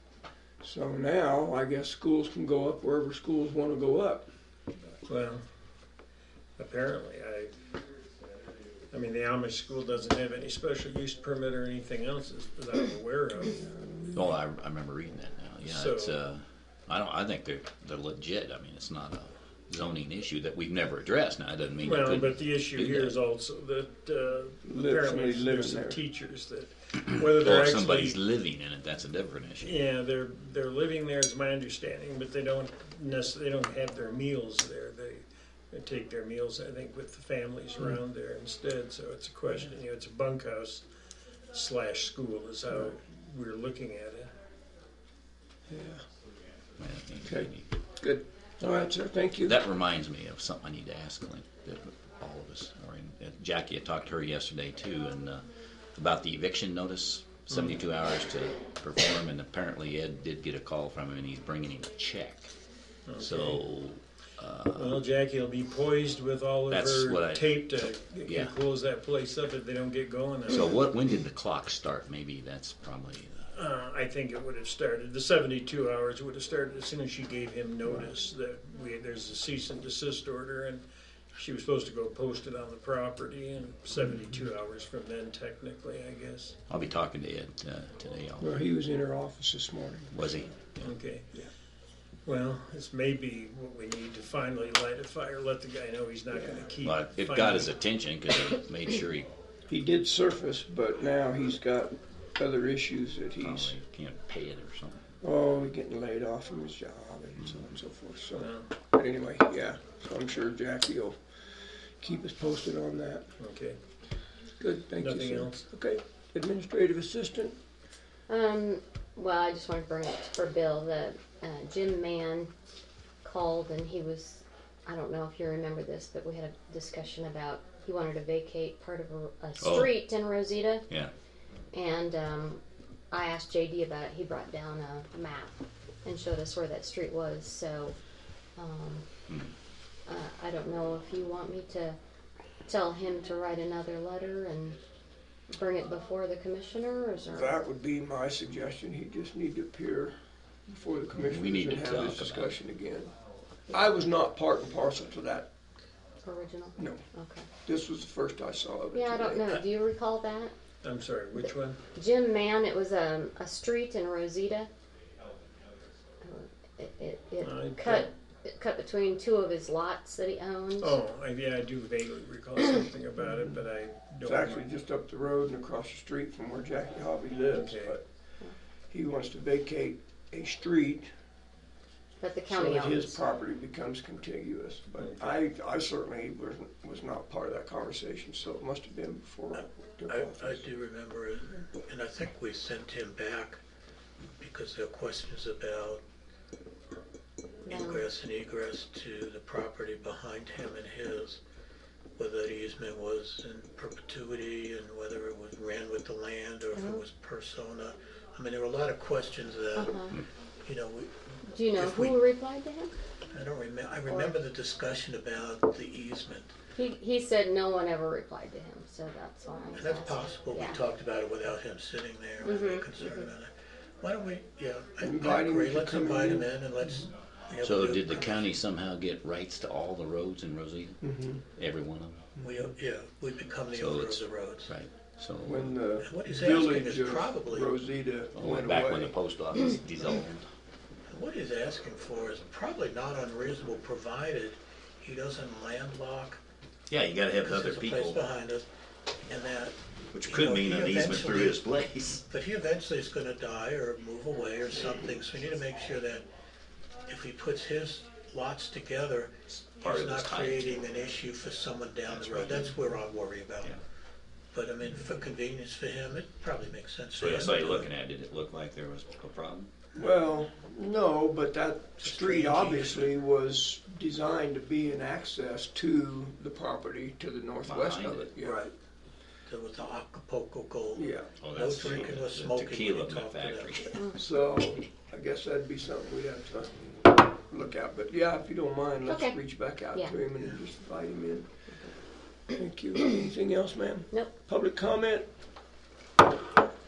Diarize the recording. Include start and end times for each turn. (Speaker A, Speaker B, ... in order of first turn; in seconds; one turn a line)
Speaker A: 0.6-4.3
Speaker B: 5.1-5.4
Speaker B: 6.6-7.5
Speaker B: 8.9-13.6
Speaker A: 13.6-14.1
Speaker C: 14.1-23.1
Speaker B: 15.6-16.2
Speaker B: 21.8-28.2
Speaker A: 24.6-26.0
Speaker C: 27.0-29.8
Speaker B: 29.6-40.8
Speaker B: 41.5-44.3
Speaker A: 45.7-46.0
Speaker C: 46.8-47.7
Speaker A: 47.2-49.6
Speaker C: 49.5-62.5
Speaker B: 57.5-57.8
Speaker B: 63.0-63.6
Speaker C: 63.2-65.0
Speaker B: 64.7-70.8
Speaker C: 66.7-67.7
Speaker C: 68.2-68.5
Speaker C: 70.5-73.5
Speaker B: 73.5-86.6
Speaker C: 86.7-88.5
Speaker A: 88.4-90.5
Speaker C: 90.1-90.9
Speaker B: 90.8-91.3
Speaker B: 92.2-97.7
Speaker A: 96.3-96.7
Speaker C: 96.8-99.3
Speaker A: 99.7-103.7
Speaker C: 103.4-105.0
Speaker A: 105.2-111.2
Speaker B: 108.3-108.7
Speaker A: 112.0-113.3
Speaker B: 113.4-113.8
Speaker A: 114.6-117.6
Speaker B: 115.0-115.6
Speaker D: 118.3-122.5
Speaker D: 123.2-130.9
Speaker C: 129.6-130.0
Speaker D: 131.7-138.0
Speaker D: 138.6-139.1
Speaker D: 140.1-142.0
Speaker D: 142.6-144.8
Speaker D: 145.5-147.6
Speaker A: 147.3-150.1
Speaker A: 150.7-153.1
Speaker C: 151.2-152.6
Speaker A: 153.7-155.5
Speaker D: 156.2-157.5
Speaker A: 156.8-157.0
Speaker A: 157.6-159.5
Speaker D: 158.9-160.5
Speaker B: 160.8-161.8
Speaker D: 161.4-164.7
Speaker D: 166.2-171.0
Speaker B: 167.4-168.1
Speaker B: 170.8-174.7
Speaker A: 174.2-178.0
Speaker B: 177.5-178.0
Speaker A: 178.9-181.1
Speaker D: 182.2-183.2
Speaker A: 182.5-190.7
Speaker B: 185.0-185.4
Speaker E: 190.1-193.6
Speaker E: 194.4-196.0
Speaker D: 197.6-198.0
Speaker E: 197.7-201.4
Speaker E: 202.2-209.9
Speaker D: 206.7-207.0
Speaker D: 209.8-210.2
Speaker E: 210.6-211.1
Speaker D: 211.4-212.9
Speaker E: 211.7-212.2
Speaker E: 213.3-216.5
Speaker D: 214.1-214.3
Speaker D: 216.8-220.8
Speaker E: 219.7-228.5
Speaker D: 222.4-223.3
Speaker A: 225.0-226.9
Speaker C: 227.6-231.0
Speaker A: 231.0-231.4
Speaker C: 231.6-232.2
Speaker A: 232.3-232.7
Speaker E: 232.4-234.7
Speaker C: 233.7-235.7
Speaker A: 235.4-239.2
Speaker E: 236.0-237.7
Speaker C: 238.3-240.4
Speaker E: 241.1-246.4
Speaker C: 246.9-248.2
Speaker E: 247.4-248.7
Speaker E: 249.2-251.6
Speaker C: 250.1-252.2
Speaker E: 252.3-256.2
Speaker E: 257.1-263.8
Speaker C: 259.5-260.8
Speaker C: 262.1-262.8
Speaker E: 264.5-267.9
Speaker C: 267.1-269.7
Speaker A: 269.9-278.7
Speaker E: 272.0-273.1
Speaker C: 277.6-278.6
Speaker E: 279.4-284.0
Speaker A: 280.9-281.3
Speaker C: 281.4-284.2
Speaker A: 284.1-286.8
Speaker A: 287.3-291.4
Speaker D: 289.0-290.2
Speaker A: 292.5-295.3